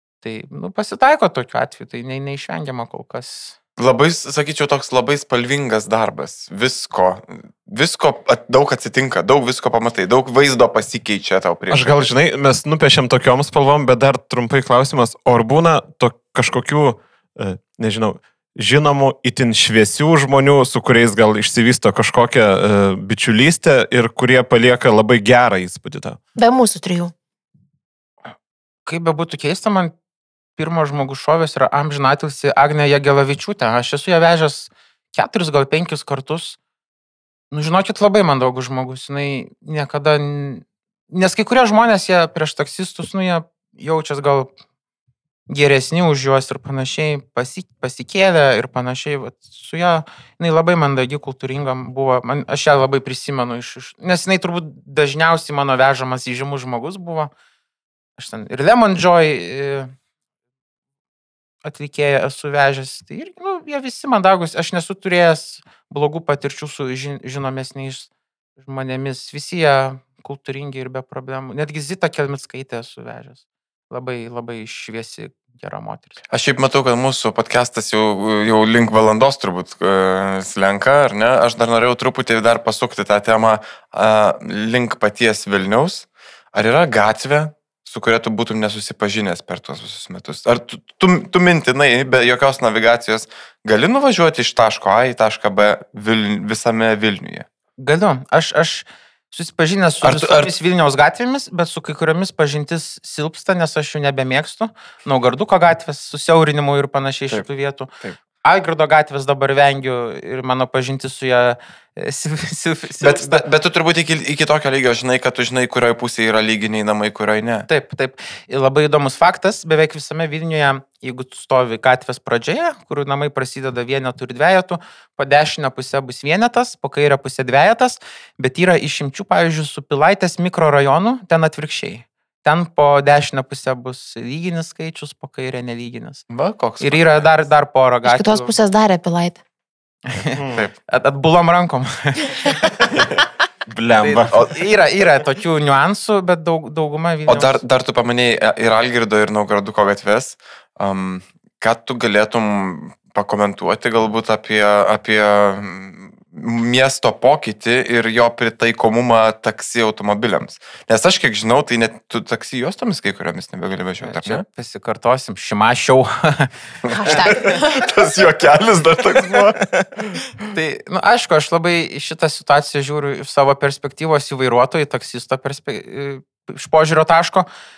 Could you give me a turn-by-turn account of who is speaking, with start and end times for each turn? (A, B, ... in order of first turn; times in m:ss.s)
0:00.2-0:03.6 A
0:03.8-0:12.1 B
0:11.7-0:26.2 C
0:26.4-0:27.1 D
0:28.8-0:29.9 A
0:30.6-0:36.6 A
0:37.5-0:44.5 A
0:45.5-0:57.3 A
0:58.2-0:59.9 A
1:01.6-1:16.2 A
1:16.3-1:37.4 B
1:37.8-1:47.9 A
1:40.0-1:40.5 B
1:48.4-1:53.4 A
1:53.0-1:57.7 B
1:57.7-2:16.3 A
2:16.3-2:17.2 B
2:16.8-2:18.5 A
2:18.0-2:19.4 D
2:20.1-2:22.6 A
2:20.3-2:20.6 C
2:23.7-2:24.4 C
2:24.0-2:27.6 A
2:24.3-2:24.6 B
2:27.3-2:44.4 B
2:44.0-2:47.4 A
2:46.8-2:49.6 B
2:46.9-2:47.9 D
2:49.3-2:50.2 C
2:50.5-2:57.5 A